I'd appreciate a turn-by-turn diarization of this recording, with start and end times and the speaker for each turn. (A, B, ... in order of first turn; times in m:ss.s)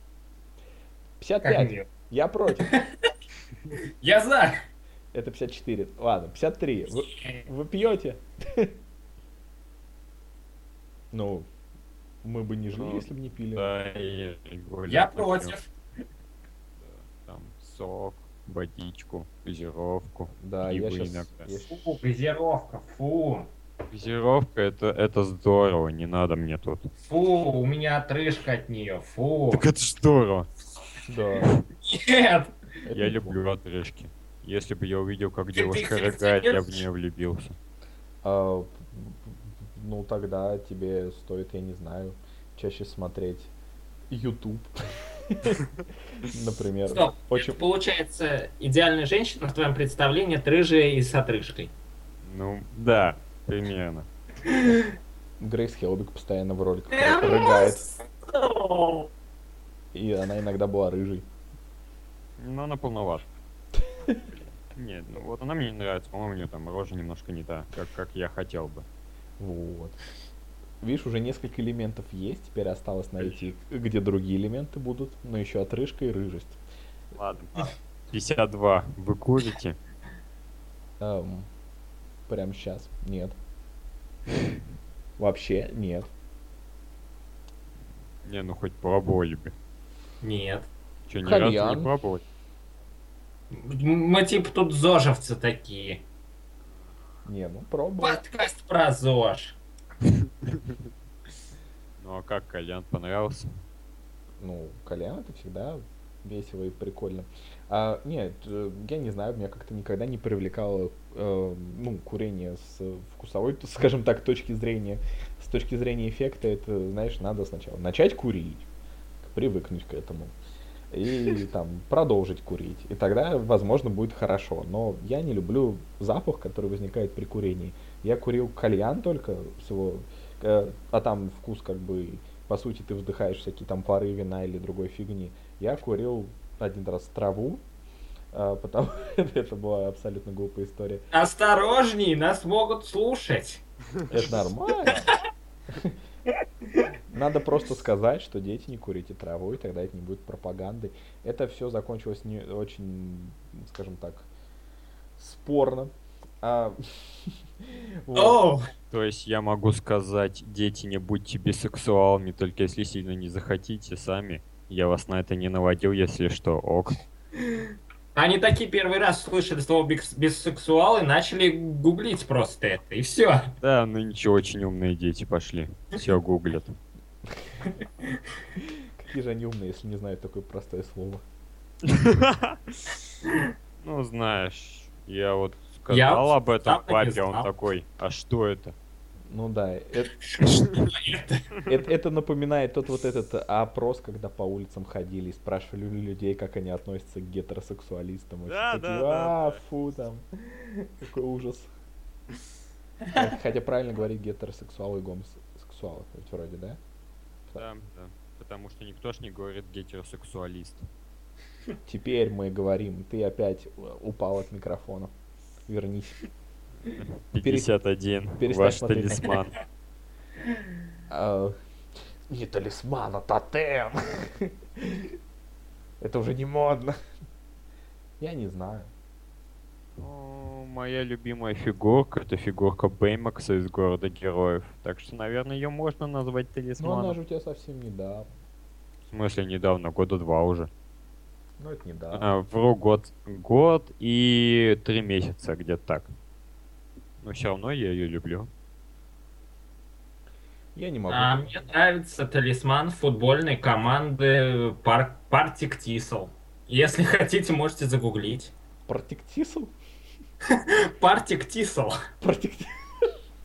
0:01.2-0:02.7 A
0:01.4-0:01.9 B
0:03.7-0:04.6 B
0:05.1-0:08.7 A
0:07.0-0:07.4 B
0:11.1-0:11.5 A
0:12.2-0:13.7 A
0:12.7-0:15.6 C
0:14.9-0:15.6 B
0:16.8-0:21.5 C
0:20.4-0:22.0 A
0:21.7-0:23.5 B
0:23.9-0:26.9 C
0:27.1-0:29.6 B
0:29.5-0:30.5 C
0:31.0-0:31.5 A
0:31.8-0:32.5 B
0:32.8-0:33.4 A
0:32.9-0:37.6 C
0:35.6-0:36.8 B
0:38.2-0:43.5 A
0:44.1-0:45.6 A
0:46.2-0:47.6 A
0:46.9-0:51.7 B
0:52.2-0:54.1 C
0:54.4-0:54.8 B
0:55.4-0:57.8 A
0:56.9-0:59.1 B
0:59.9-1:01.2 A
1:02.4-1:03.3 C
1:03.9-1:04.2 A
1:04.7-1:08.8 C
1:09.4-1:10.0 A
1:10.8-1:16.6 A
1:17.2-1:19.8 C
1:21.0-1:21.5 A
1:22.3-1:23.4 A
1:25.2-1:26.1 A
1:28.2-1:29.5 C
1:30.2-1:30.7 B
1:31.1-1:32.2 C
1:31.2-1:31.9 A
1:33.5-1:36.0 B
1:37.2-1:38.2 A
1:38.0-1:39.6 B
1:40.0-1:40.8 C
1:42.0-1:43.5 C
1:44.4-1:58.6 A
1:59.2-2:00.3 A
2:00.9-2:17.6 A
2:18.3-2:21.0 A
2:21.1-2:23.6 B
2:24.1-2:25.1 A
2:24.8-2:25.2 B
2:25.7-2:26.0 A
2:27.1-2:34.3 A
2:35.2-2:38.4 A
2:38.1-2:38.7 B
2:38.9-2:47.0 C
2:48.1-2:53.5 B
2:53.6-2:56.7 C
2:58.5-3:01.2 A
3:01.8-3:02.9 C
3:03.8-3:08.7 C
3:05.9-3:07.5 B
3:09.3-3:10.1 A
3:10.2-3:11.4 B
3:11.6-3:21.7 A
3:18.5-3:19.6 C
3:23.1-3:26.8 A
3:27.6-3:30.9 C
3:31.8-3:35.1 A
3:35.7-3:36.2 A
3:36.8-3:39.5 C
3:37.4-3:37.7 A
3:38.4-3:39.4 A
3:41.1-3:41.5 A
3:42.3-3:45.1 A
3:46.0-3:47.0 A
3:48.2-3:48.9 A
3:50.0-3:57.2 C
3:56.8-3:58.3 A
3:59.1-4:00.7 C
4:01.6-4:02.3 A
4:02.1-4:06.1 C
4:07.2-4:08.5 C
4:10.7-4:11.6 A
4:11.1-4:18.5 B
4:18.9-4:19.7 A
4:20.5-4:22.0 B
4:22.2-4:23.1 A